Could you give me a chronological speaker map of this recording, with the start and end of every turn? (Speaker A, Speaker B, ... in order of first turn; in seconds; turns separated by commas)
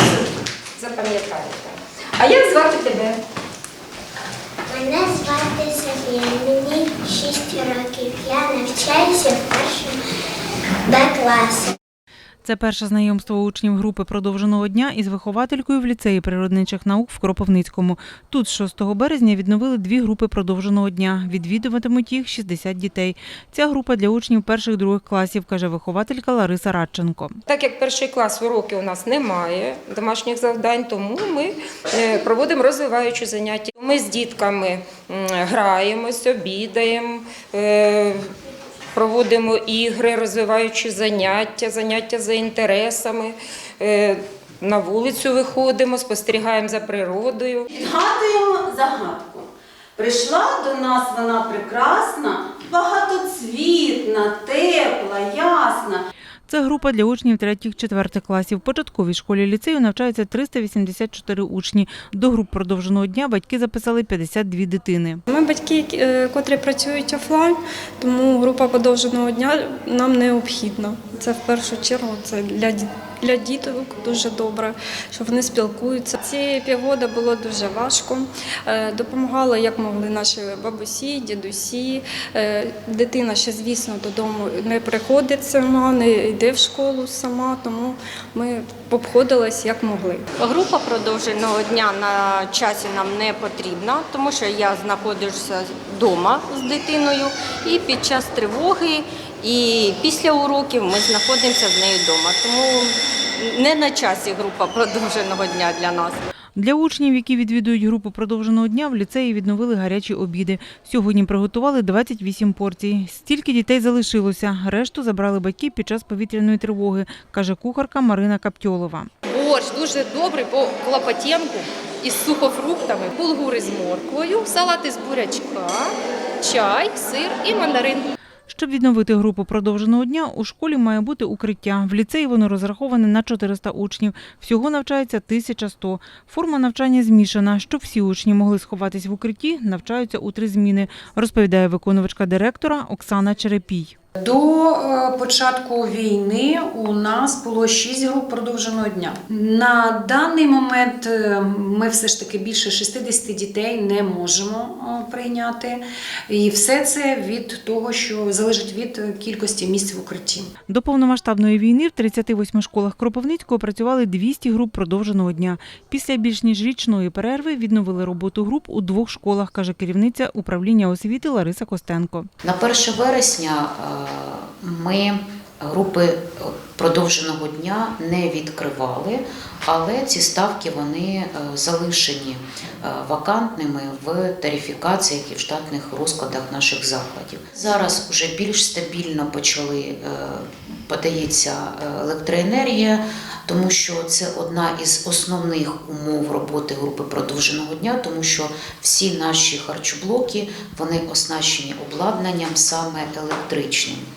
Speaker A: 0.8-3.2, Speaker B: 4.7-10.0, Speaker B: 10.9-11.8, Speaker C: 12.4-27.4, Speaker A: 27.5-38.2, Speaker A: 38.9-47.7, Speaker D: 47.7-56.0, Speaker C: 56.5-65.2, Speaker E: 65.3-90.3, Speaker F: 90.4-106.2, Speaker C: 106.5-119.1, Speaker G: 119.5-121.6, Speaker G: 122.3-125.8, Speaker G: 126.4-128.0, Speaker C: 128.5-143.9, Speaker H: 144.2-160.5, Speaker C: 160.7-172.3, Speaker I: 172.4-204.1